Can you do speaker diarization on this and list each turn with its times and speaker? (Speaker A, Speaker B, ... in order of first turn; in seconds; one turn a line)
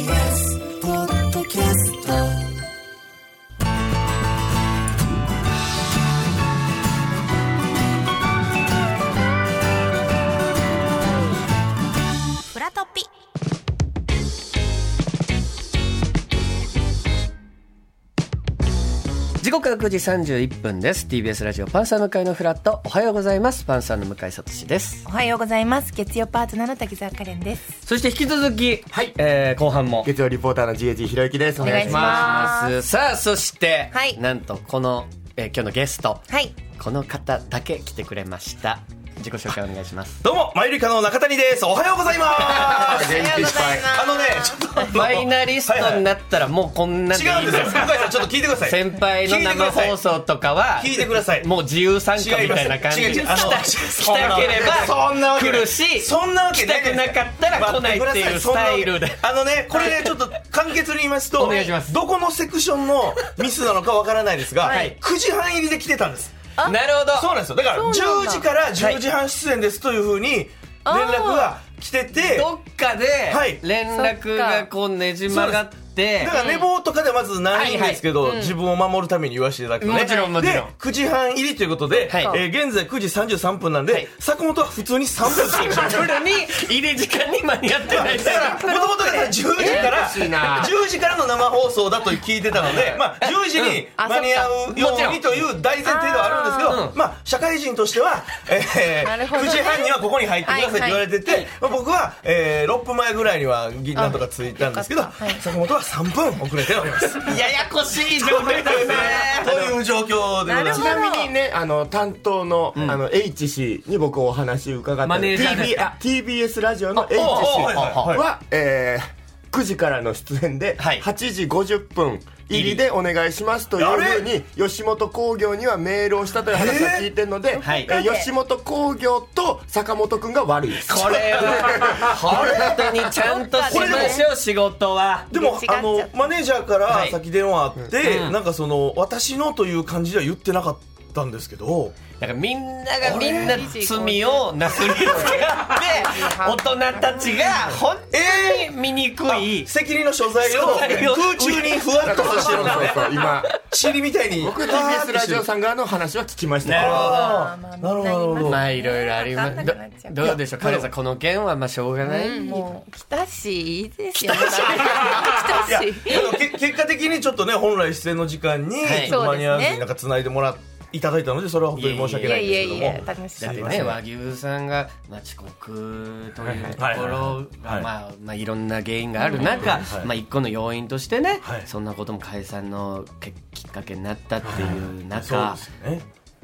Speaker A: 19.4-25.1
Speaker B: 25.1-27.7
Speaker A: 27.8-30.1
Speaker C: 30.0-32.2
Speaker B: 31.6-32.8
Speaker A: 31.6-40.2
Speaker B: 33.9-34.2
Speaker B: 36.3-36.6
Speaker D: 40.2-46.1
Speaker C: 42.4-43.9
Speaker B: 42.5-45.0
Speaker A: 44.9-59.2
Speaker D: 47.1-50.0
Speaker D: 50.7-51.5
Speaker D: 52.1-66.3
Speaker B: 59.7-60.0
Speaker A: 61.4-62.0
Speaker B: 61.4-61.8
Speaker B: 64.6-64.9
Speaker A: 64.6-65.0
Speaker A: 66.6-67.3
Speaker D: 67.1-72.5
Speaker B: 67.6-68.5
Speaker B: 70.8-71.6
Speaker A: 72.2-76.3
Speaker D: 73.3-73.6
Speaker B: 73.9-74.7
Speaker D: 75.3-86.2
Speaker B: 76.3-76.7
Speaker A: 77.5-78.0
Speaker B: 77.7-78.5
Speaker B: 79.8-80.3
Speaker A: 79.8-80.7
Speaker B: 81.9-82.4
Speaker A: 82.1-82.3
Speaker A: 85.2-88.7
Speaker D: 87.9-107.4
Speaker B: 87.9-90.1
Speaker A: 89.6-90.7
Speaker A: 92.6-93.8
Speaker B: 93.9-95.0
Speaker A: 94.7-95.3
Speaker B: 95.8-96.8
Speaker A: 96.7-97.0
Speaker B: 99.0-101.5
Speaker B: 103.9-105.5
Speaker A: 106.8-109.7
Speaker D: 107.9-111.0
Speaker B: 108.7-109.7
Speaker B: 110.4-111.3
Speaker C: 110.7-133.0
Speaker A: 112.7-113.0
Speaker A: 115.0-115.9
Speaker A: 117.0-118.2
Speaker D: 117.2-118.2
Speaker A: 120.8-121.0
Speaker A: 122.5-122.8
Speaker D: 123.8-124.3
Speaker D: 126.5-127.1
Speaker B: 127.5-128.3
Speaker A: 127.6-127.9
Speaker A: 130.7-135.3
Speaker D: 131.8-132.4
Speaker B: 133.1-134.2
Speaker D: 133.7-134.2
Speaker B: 135.3-136.3
Speaker D: 135.3-142.0
Speaker A: 136.9-137.2
Speaker A: 138.0-138.3
Speaker A: 142.2-149.7
Speaker D: 143.0-143.7
Speaker B: 143.1-147.7
Speaker D: 148.1-148.7
Speaker D: 149.2-155.5
Speaker A: 150.4-153.3
Speaker C: 152.0-153.5
Speaker C: 154.4-157.1
Speaker D: 156.6-158.6
Speaker B: 156.7-160.4
Speaker A: 158.4-162.7
Speaker D: 160.2-160.9
Speaker B: 162.0-166.5
Speaker A: 164.2-165.1
Speaker D: 164.4-174.0
Speaker A: 168.8-169.2
Speaker B: 169.0-169.8
Speaker A: 171.7-185.6
Speaker B: 172.2-173.7
Speaker D: 176.5-177.9
Speaker B: 179.2-179.7
Speaker D: 179.5-180.1
Speaker D: 184.4-186.0